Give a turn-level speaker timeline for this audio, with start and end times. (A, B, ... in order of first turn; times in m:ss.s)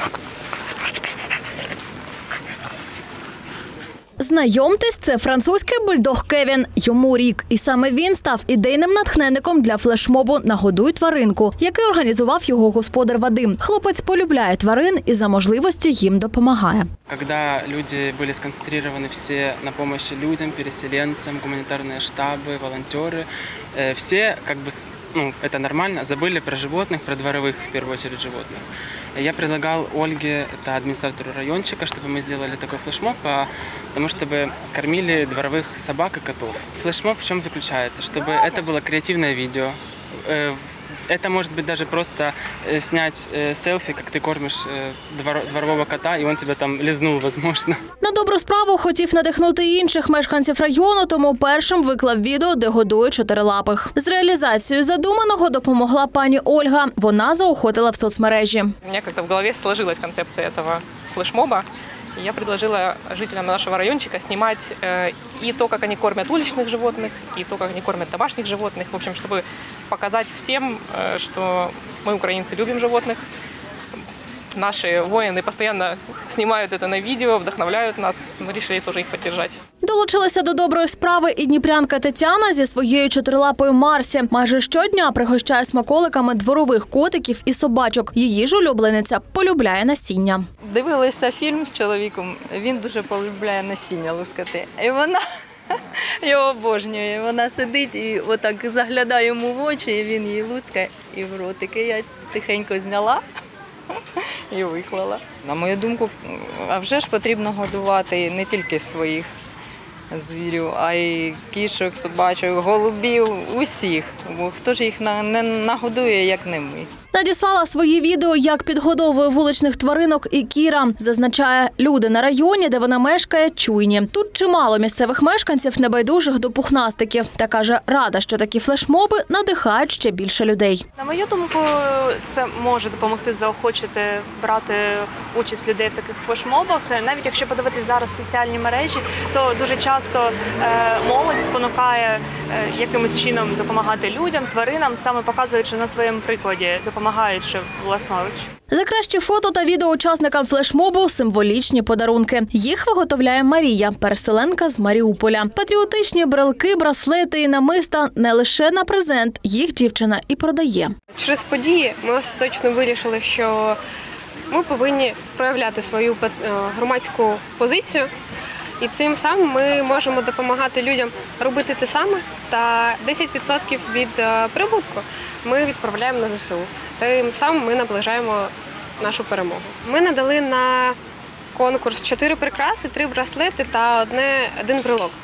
0:04.2-0:16.9 A
0:17.1-0:47.8 B
0:48.0-0:58.7 A
0:58.9-1:01.6 C
1:02.2-1:13.2 C
1:14.5-1:19.6 C
1:19.8-1:30.4 A
1:30.6-1:43.2 D
1:44.5-1:49.2 D
1:50.1-1:56.9 D
1:57.1-2:10.8 A
2:11.0-2:28.5 E
2:28.7-2:40.9 A
2:41.2-2:43.8 F
2:44.5-2:48.1 F
2:48.8-3:01.0 F
3:01.5-3:05.1 F